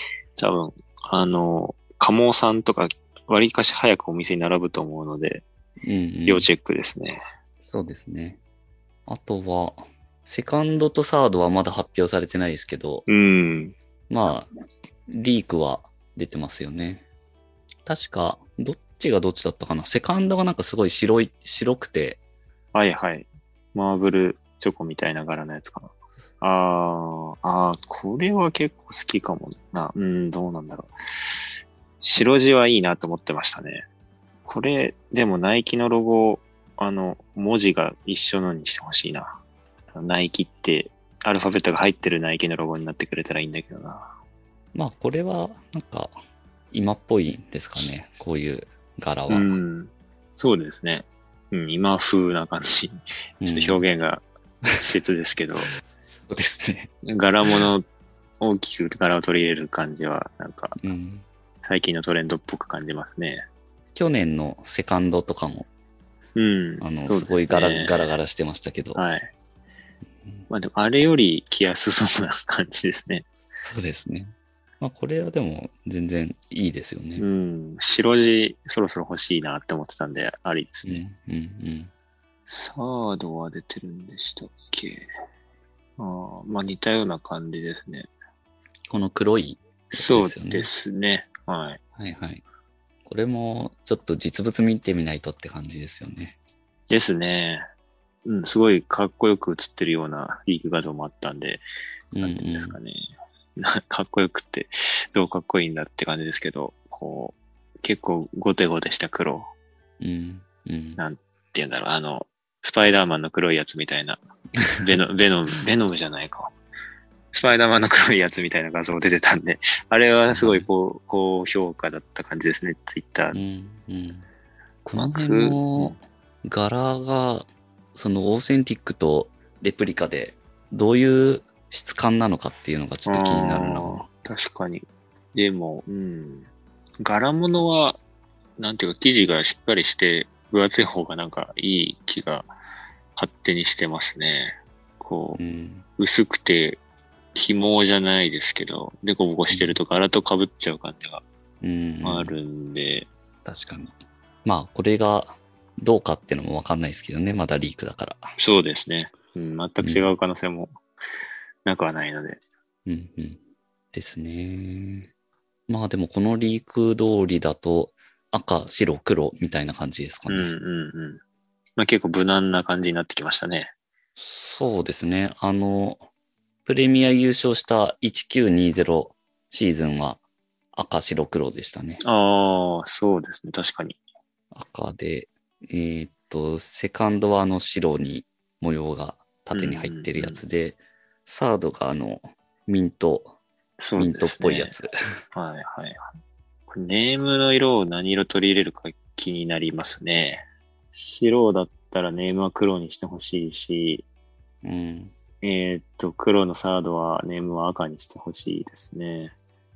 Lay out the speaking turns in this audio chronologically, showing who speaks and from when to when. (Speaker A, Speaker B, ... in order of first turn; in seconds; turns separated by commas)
Speaker A: 0.4-5.5, Speaker B: 5.8-6.5, Speaker A: 6.3-7.2, Speaker B: 7.6-8.4, Speaker B: 9.1-13.1, Speaker A: 13.1-13.8, Speaker B: 14.1-14.5, Speaker B: 15.1-17.0, Speaker B: 17.9-22.2, Speaker A: 22.7-31.4, Speaker A: 32.0-33.9, Speaker A: 34.5-39.4, Speaker A: 39.9-44.1, Speaker B: 44.7-46.1, Speaker B: 46.7-49.5, Speaker A: 49.3-54.2, Speaker B: 53.4-53.8, Speaker A: 54.8-55.7, Speaker B: 56.0-56.9, Speaker A: 57.0-57.9, Speaker A: 58.4-60.8, Speaker B: 60.8-61.2, Speaker A: 61.6-63.5, Speaker B: 64.0-65.7, Speaker A: 66.4-68.1, Speaker B: 66.8-69.0, Speaker A: 69.0-69.3, Speaker A: 70.5-73.3, Speaker B: 73.6-77.2, Speaker A: 77.2-81.0, Speaker B: 80.8-81.9, Speaker A: 82.5-85.1, Speaker A: 86.0-88.1, Speaker B: 88.9-90.7, Speaker A: 89.9-91.8, Speaker B: 92.0-92.4, Speaker B: 93.0-96.4, Speaker A: 96.9-97.7, Speaker A: 98.2-101.6, Speaker B: 102.1-102.8, Speaker A: 102.2-109.5, Speaker B: 110.0-111.0, Speaker A: 111.0-114.2, Speaker B: 114.7-115.0, Speaker A: 114.8-116.5, Speaker A: 117.3-123.4, Speaker B: 120.3-120.7, Speaker B: 123.3-124.3, Speaker B: 124.8-134.1, Speaker A: 125.0-126.0, Speaker A: 133.1-136.5, Speaker A: 137.0-138.0, Speaker A: 138.6-142.5, Speaker A: 143.2-145.4, Speaker B: 145.3-145.9, Speaker A: 146.0-146.8, Speaker A: 147.3-151.2, Speaker B: 149.5-149.8, Speaker B: 151.6-152.3, Speaker A: 152.0-153.1, Speaker B: 153.4-158.3, Speaker A: 158.4-160.7, Speaker B: 159.8-160.1, Speaker A: 161.7-162.4, Speaker B: 162.9-163.4, Speaker B: 163.9-165.1, Speaker B: 165.7-170.5, Speaker A: 170.3-171.2, Speaker A: 171.8-173.7, Speaker B: 174.2-176.1, Speaker B: 176.7-180.2, Speaker B: 180.7-182.0, Speaker A: 182.0-184.0, Speaker B: 184.5-193.3, Speaker A: 189.5-190.4, Speaker A: 193.8-194.8, Speaker B: 194.0-194.9, Speaker A: 195.3-196.0, Speaker A: 196.7-204.1, Speaker B: 204.6-205.2, Speaker A: 205.4-209.3